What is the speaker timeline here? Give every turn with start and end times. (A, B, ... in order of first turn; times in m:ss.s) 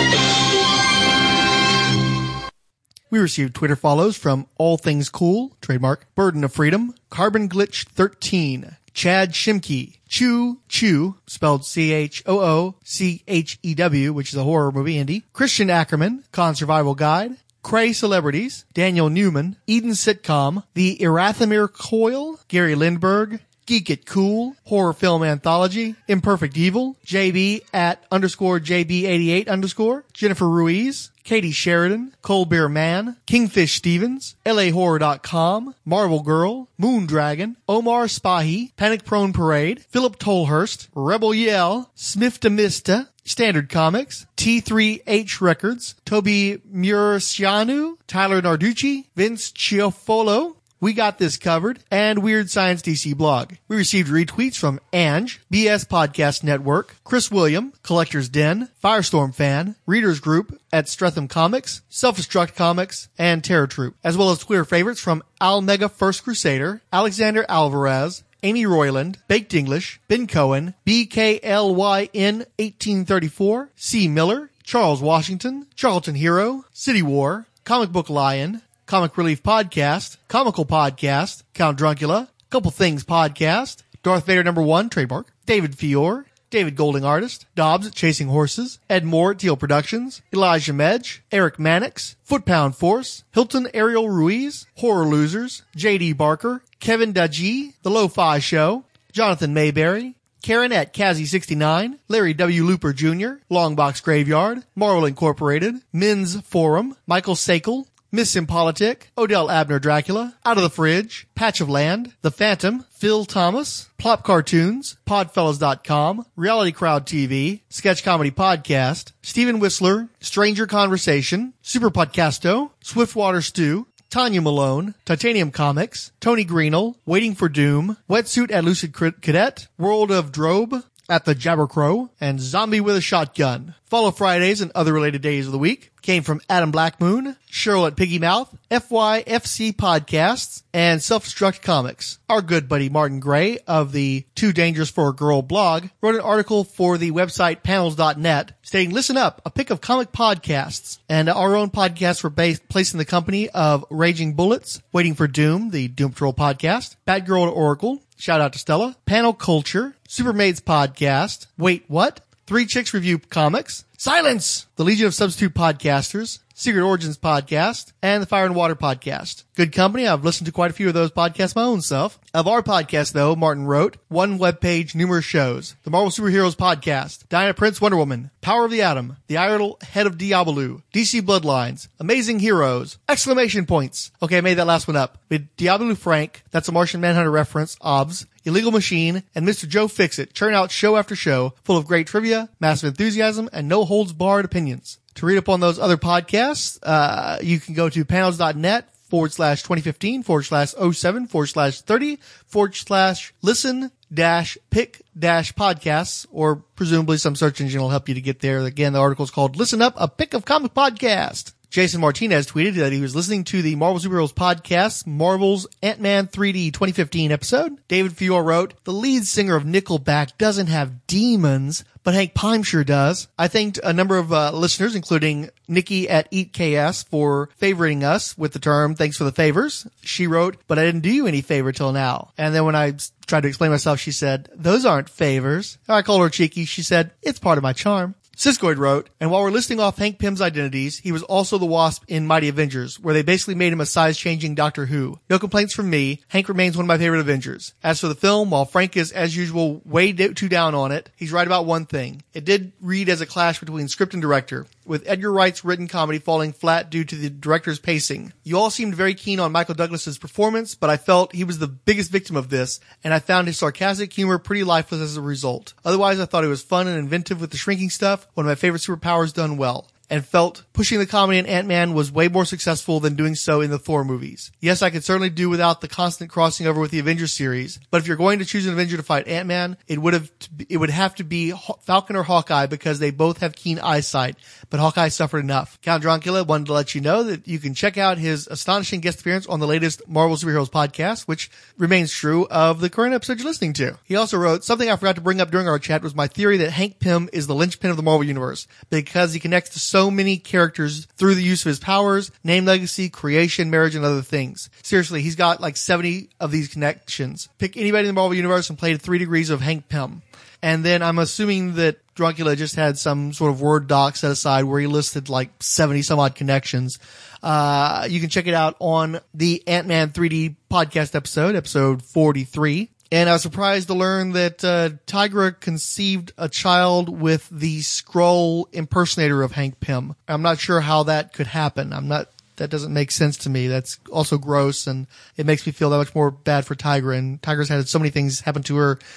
0:03.1-5:39.0 A